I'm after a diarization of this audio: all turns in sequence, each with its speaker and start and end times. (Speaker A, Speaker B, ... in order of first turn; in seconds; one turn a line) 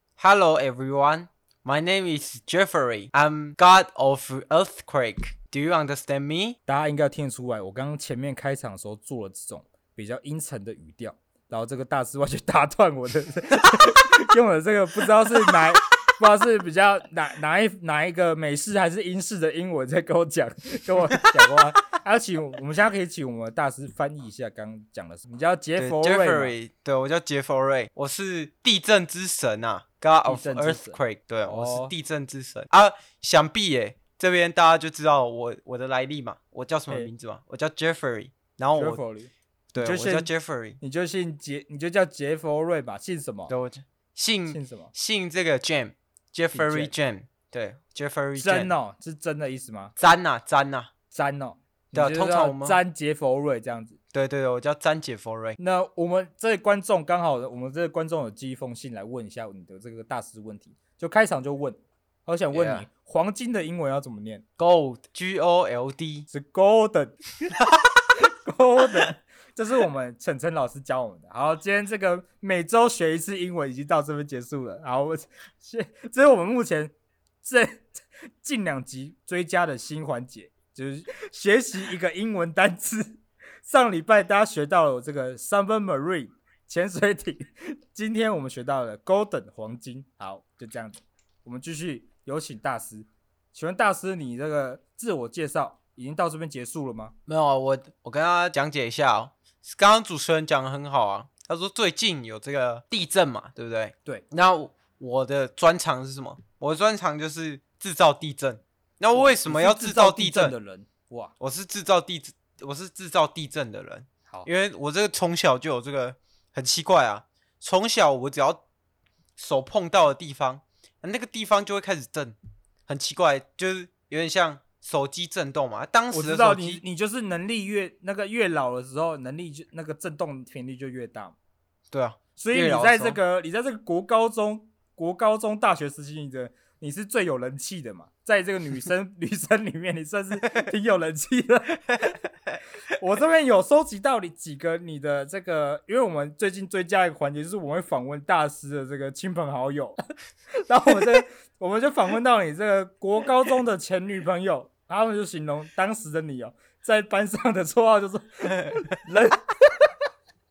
Speaker A: 0.2-6.6
Speaker B: 6.7-26.5
Speaker A: 25.8-39.0
Speaker B: 30.2-31.9
Speaker B: 38.8-40.3
Speaker A: 39.7-40.8
Speaker B: 40.8-43.5
Speaker A: 43.5-48.7
Speaker B: 44.5-44.9
Speaker B: 46.5-46.9
Speaker B: 48.4-49.9
Speaker A: 50.0-50.9
Speaker B: 51.1-54.0
Speaker A: 51.9-52.8
Speaker A: 54.1-55.6
Speaker B: 55.6-64.4
Speaker A: 62.5-62.9
Speaker A: 64.6-66.3
Speaker B: 66.3-67.2
Speaker A: 67.6-67.8
Speaker B: 68.2-97.2
Speaker A: 97.3-110.5
Speaker B: 109.1-111.3
Speaker A: 111.4-118.6
Speaker A: 119.4-122.3
Speaker A: 122.9-126.8
Speaker B: 126.1-131.3
Speaker A: 131.9-133.2
Speaker B: 132.4-142.2
Speaker B: 143.0-150.0
Speaker B: 150.7-159.9